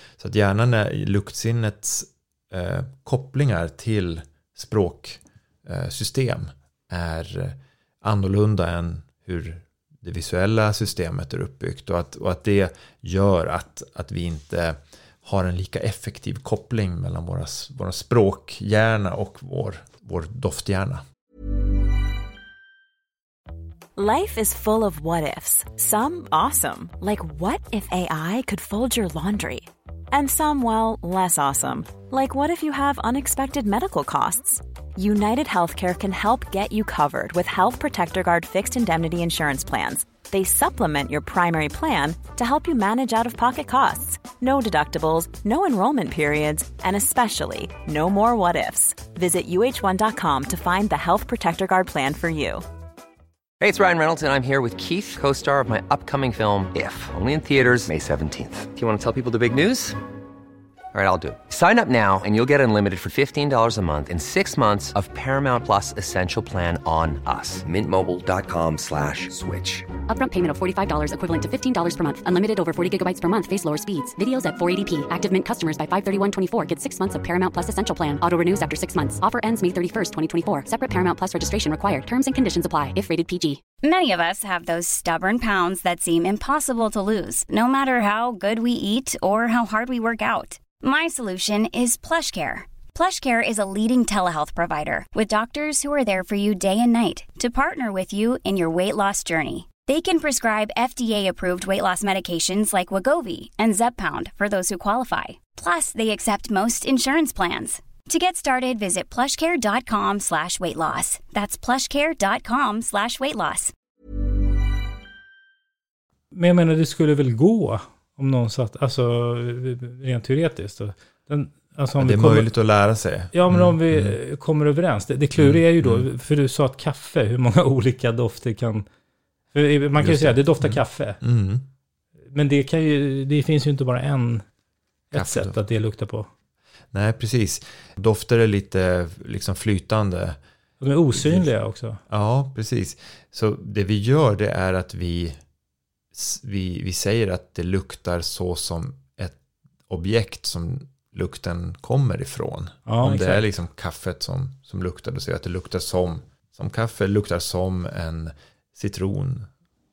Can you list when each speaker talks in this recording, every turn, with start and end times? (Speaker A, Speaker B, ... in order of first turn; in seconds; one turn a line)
Speaker A: 0.2-21.0
Speaker B: 23.9-52.6
Speaker C: 53.6-60.0
Speaker C: 60.9-69.8
Speaker D: 70.1-83.6
Speaker E: 83.8-113.7
Speaker F: 116.3-122.5
Speaker A: 122.0-124.2
Speaker F: 123.3-128.8
Speaker A: 125.4-126.1
Speaker F: 129.5-131.2
Speaker A: 130.0-131.7
Speaker F: 132.3-134.4
Speaker F: 135.1-136.3
Speaker A: 135.1-135.6
Speaker A: 136.9-140.4
Speaker F: 140.8-142.0
Speaker A: 141.1-141.5
Speaker A: 142.1-145.4
Speaker A: 146.1-159.5
Speaker F: 152.9-153.4